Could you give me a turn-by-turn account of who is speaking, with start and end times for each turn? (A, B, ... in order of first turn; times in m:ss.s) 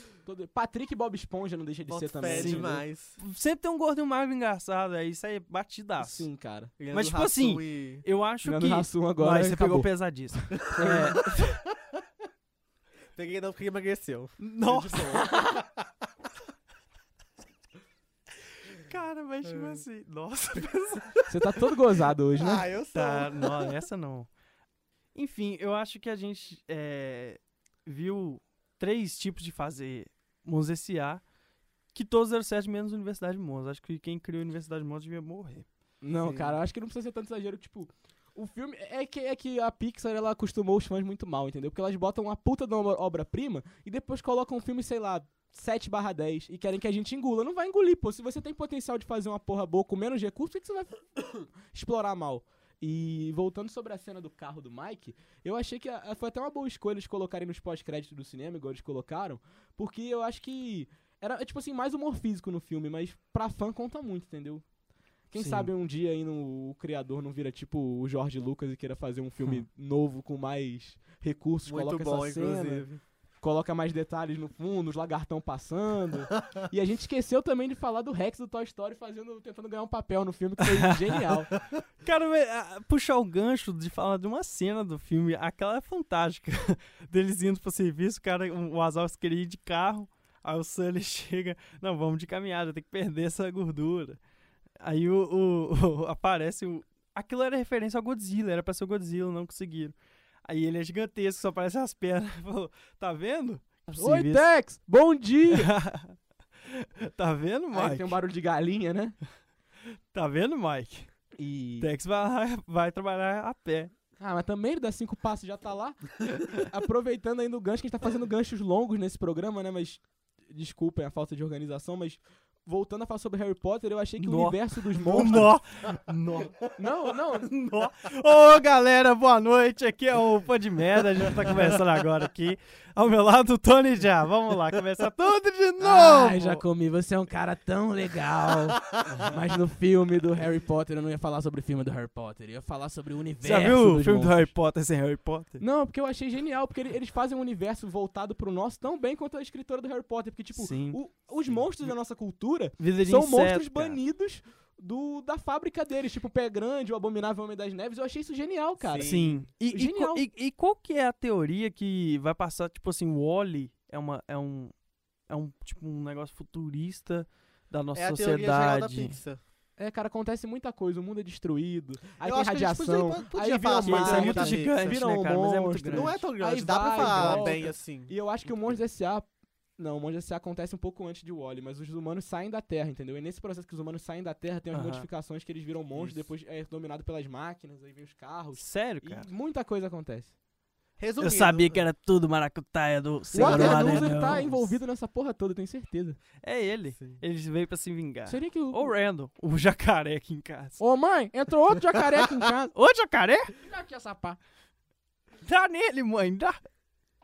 0:00.3-0:02.8 A
0:01.9-0:03.2 B
0:02.3-0:06.3 C
0:06.0-0:06.8 A
0:06.8-0:08.0 B
0:06.9-0:11.6 C
0:08.4-0:11.2 A
0:10.8-0:11.4 B
0:13.2-0:15.9 B
0:14.4-0:15.2 C
0:15.2-0:15.6 A
0:18.8-0:21.2 C
0:21.3-0:22.7 A
0:22.4-0:23.8 B
0:22.9-0:24.3 C
0:25.2-0:31.2 C
0:31.9-0:35.7 C
0:36.0-1:04.6 A
0:36.3-0:36.5 B
1:05.3-1:12.9 A
1:05.4-1:05.7 C
1:11.7-1:13.0 B
1:13.4-1:21.5 A
1:20.6-1:21.3 C
1:22.0-1:34.2 C
1:34.8-1:40.0 C
1:40.5-1:44.5 C
1:43.9-1:45.7 A
1:45.5-1:48.2 C
1:47.7-1:49.2 A
1:50.1-1:51.2 C
1:51.4-1:51.9 A
1:51.8-1:53.9 C
1:54.2-2:05.5 A
2:04.2-2:06.6 C
2:06.8-2:07.5 A
2:07.4-2:16.6 C
2:15.8-2:24.5 A
2:23.4-2:25.6 C
2:25.6-2:39.2 A
2:30.6-2:31.0 C
2:32.8-2:34.0 C
2:38.8-2:39.5 B
2:39.0-2:44.7 C
2:39.7-2:40.2 A
2:45.3-2:49.2 C
2:48.0-2:49.4 B
2:49.8-3:10.3 A
2:52.2-2:55.0 B
2:53.8-2:56.3 C
2:55.9-2:58.2 B
2:57.0-2:57.6 C
3:04.7-3:05.1 C
3:05.9-3:06.2 B
3:08.6-3:09.3 C
3:11.0-3:11.9 B
3:11.2-3:14.7 C
3:13.3-3:16.2 A
3:13.4-3:14.3 B
3:16.4-3:20.8 C
3:18.3-3:19.0 A
3:20.8-3:22.7 A
3:22.7-3:23.5 C
3:23.6-3:24.4 A
3:25.4-3:26.6 C